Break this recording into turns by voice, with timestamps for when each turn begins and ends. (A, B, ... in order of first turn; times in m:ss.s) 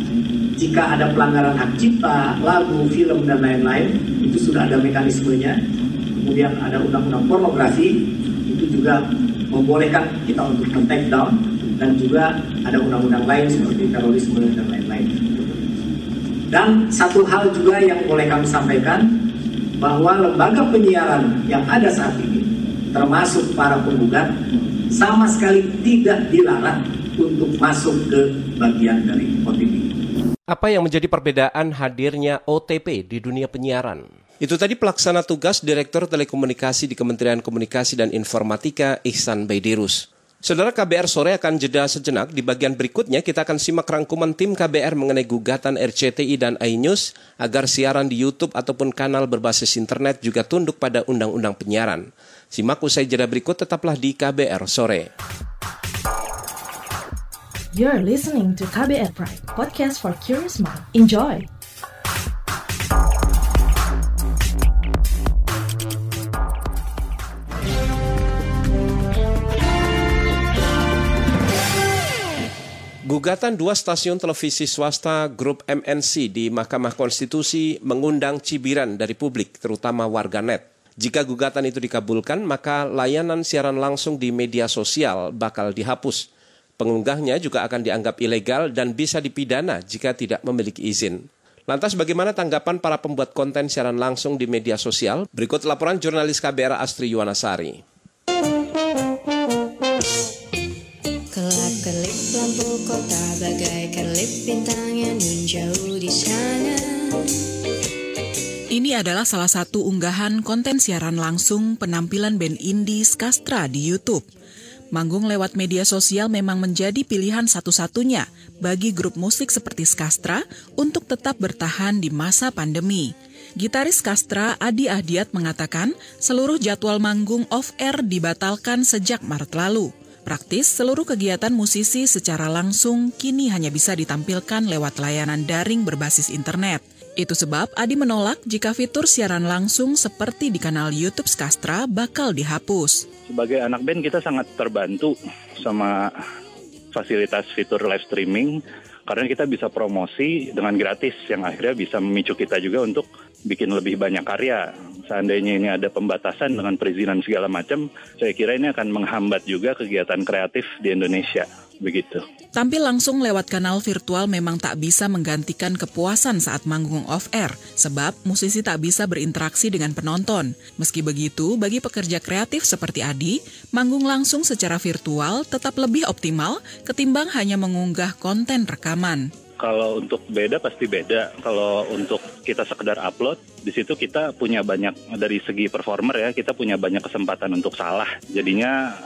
0:00.6-0:05.6 A
0:06.2-0:07.9 A
0:08.5-0:15.5 A
0:16.5-0:19.1 A
0:19.8-0:24.3 A
0:24.9-0:29.9 A
0:30.5-0:55.1 B
0:57.7-1:01.5 C
1:13.1-1:26.3 B
1:26.8-1:37.8 B
1:41.3-1:47.0 D
1:48.7-1:54.2 E
1:54.9-2:23.1 E
2:23.3-2:26.1 F
2:26.9-2:28.5 F
2:29.1-2:42.2 F
2:42.5-2:59.3 E
2:59.6-3:08.8 F